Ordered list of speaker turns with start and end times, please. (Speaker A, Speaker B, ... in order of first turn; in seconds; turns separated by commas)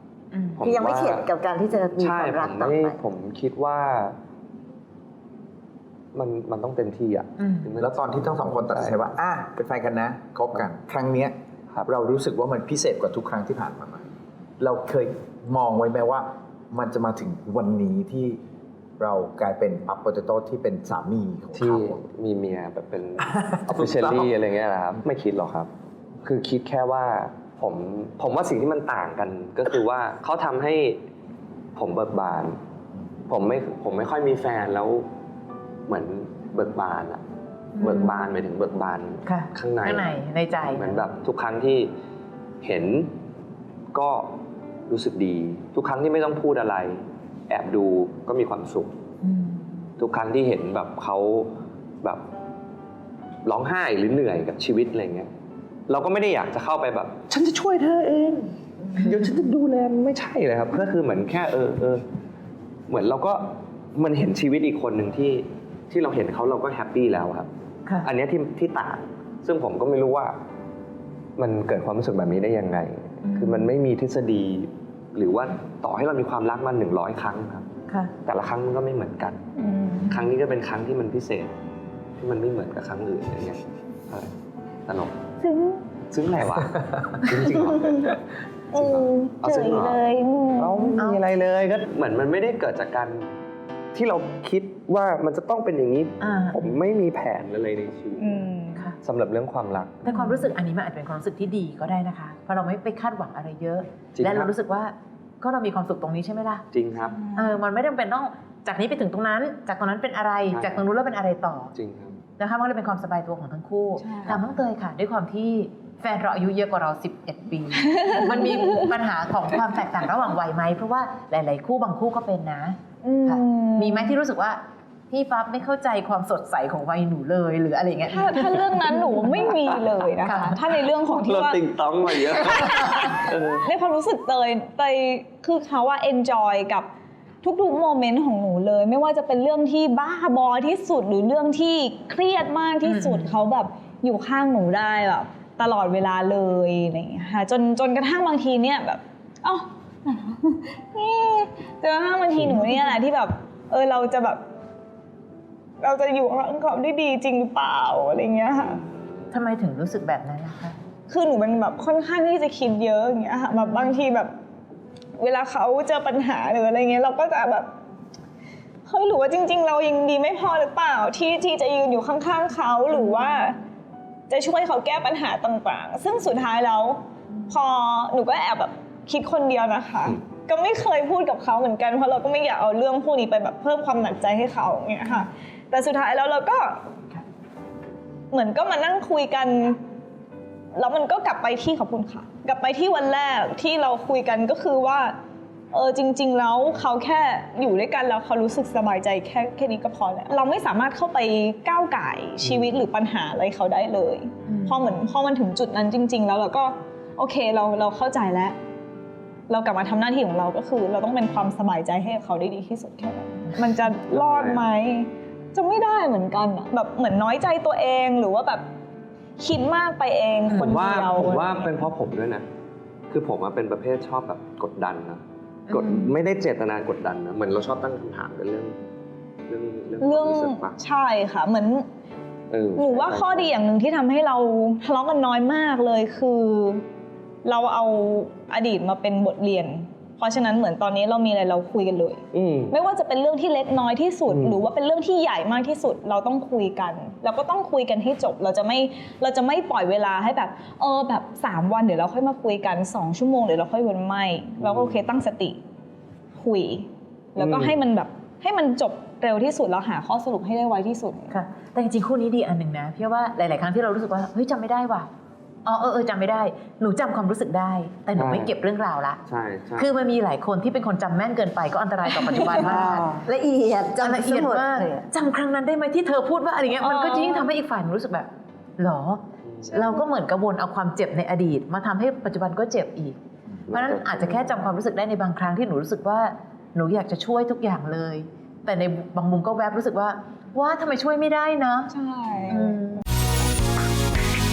Speaker A: 0.3-0.7, Speaker B: 0.6-1.3, Speaker C: 0.6-3.0, Speaker B: 1.8-4.2, Speaker B: 6.1-9.2, Speaker A: 7.4-7.7, Speaker D: 7.8-14.1, Speaker D: 14.6-18.4, Speaker D: 19.0-22.0, Speaker B: 21.5-25.7, Speaker D: 23.2-24.3, Speaker B: 26.2-31.0, Speaker B: 31.8-32.6, Speaker B: 33.3-35.1, Speaker B: 35.9-37.2, Speaker A: 37.8-38.4, Speaker B: 37.8-40.1, Speaker A: 39.2-41.1, Speaker B: 40.6-41.9, Speaker B: 42.6-43.1, Speaker B: 43.9-44.3, Speaker B: 44.9-48.9, Speaker A: 49.2-49.8, Speaker B: 50.0-52.2, Speaker B: 53.4-55.3, Speaker B: 55.9-62.0, Speaker B: 62.9-67.5, Speaker B: 68.0-70.4, Speaker B: 71.4-77.7, Speaker A: 73.2-73.7, Speaker A: 77.9-78.1, Speaker B: 78.2-79.4, Speaker E: 79.5-80.2, Speaker B: 80.1-81.5, Speaker B: 82.2-84.3, Speaker B: 84.9-85.2, Speaker E: 85.4-85.8, Speaker B: 86.1-88.2, Speaker E: 88.7-91.0, Speaker B: 88.7-90.0, Speaker B: 90.6-93.3, Speaker A: 91.0-91.2, Speaker B: 93.9-98.5, Speaker A: 96.2-96.7, Speaker E: 98.2-98.9, Speaker B: 99.0-100.1, Speaker A: 100.0-106.6, Speaker E: 100.1-100.4, Speaker B: 104.1-104.5, Speaker B: 106.7-107.2, Speaker E: 107.1-107.5, Speaker A: 107.3-111.7, Speaker B: 110.5-110.8, Speaker B: 111.7-112.2, Speaker A: 112.4-129.5, Speaker E: 114.0-114.4, Speaker E: 117.8-118.9, Speaker E: 123.0-124.1, Speaker E: 128.0-136.9, Speaker A: 130.2-130.5, Speaker B: 131.0-133.7, Speaker E: 137.4-154.4, Speaker A: 142.8-143.3, Speaker E: 155.8-158.8, Speaker B: 158.6-159.3, Speaker A: 159.3-160.8, Speaker E: 161.1-164.3, Speaker E: 165.2-167.7, Speaker E: 168.8-173.6, Speaker E: 174.3-186.8, Speaker E: 188.3-189.8, Speaker E: 190.7-195.2, Speaker E: 195.7-208.6, Speaker B: 202.4-202.7, Speaker A: 204.4-204.9, Speaker E: 209.5-218.6, Speaker B: 214.1-214.7, Speaker E: 219.4-221.7, Speaker B: 220.6-222.4, Speaker B: 223.1-228.8, Speaker A: 225.7-226.2, Speaker B: 229.5-230.8, Speaker E: 230.0-231.8, Speaker B: 232.5-233.6, Speaker E: 232.8-236.8, Speaker E: 237.4-255.6, Speaker B: 242.3-242.7, Speaker B: 244.3-244.6, Speaker B: 254.6-255.1, Speaker E: 256.4-261.4, Speaker B: 257.4-257.8, Speaker A: 261.3-265.1, Speaker A: 265.6-269.2, Speaker B: 268.1-268.5, Speaker B: 269.3-269.9, Speaker A: 269.8-273.1, Speaker C: 272.5-275.1, Speaker A: 274.0-283.2, Speaker E: 276.8-277.5, Speaker B: 279.4-279.9, Speaker B: 283.7-284.6, Speaker A: 283.7-291.9, Speaker E: 291.9-292.7, Speaker A: 292.5-293.0